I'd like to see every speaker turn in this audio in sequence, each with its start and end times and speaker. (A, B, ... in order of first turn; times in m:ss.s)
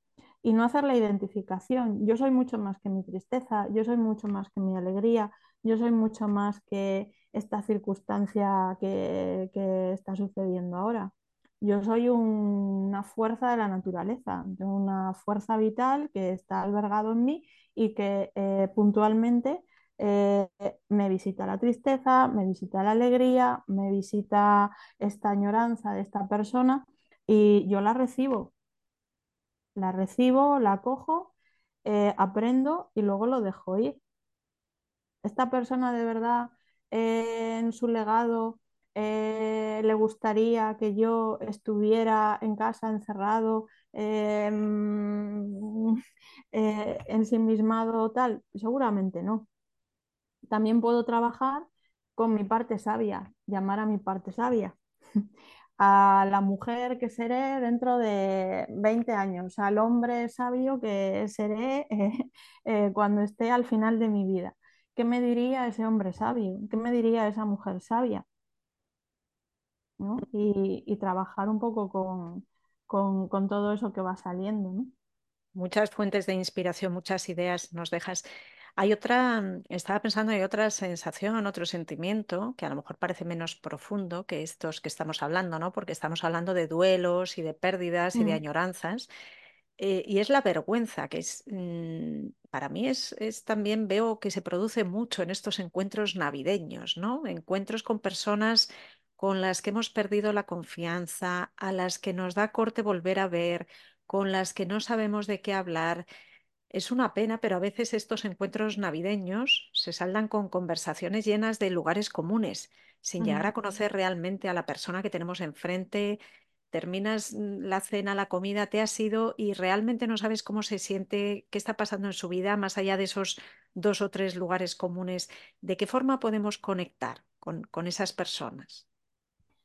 0:00.4-0:28.5 A
0:29.8-0:31.3 A
0:31.8-0:34.0 A
0:35.2-0:46.0 A
0:46.5-0:49.5 A
0:50.5-0:51.7 A
0:52.2-0:55.2 A
0:55.8-1:08.2 A
1:10.0-1:14.9 A
1:15.6-1:18.3 B
1:18.8-1:29.1 B
1:28.2-1:28.4 A
1:29.8-1:46.1 B
1:46.7-1:56.2 B
1:53.2-1:53.5 A
1:56.7-2:08.9 B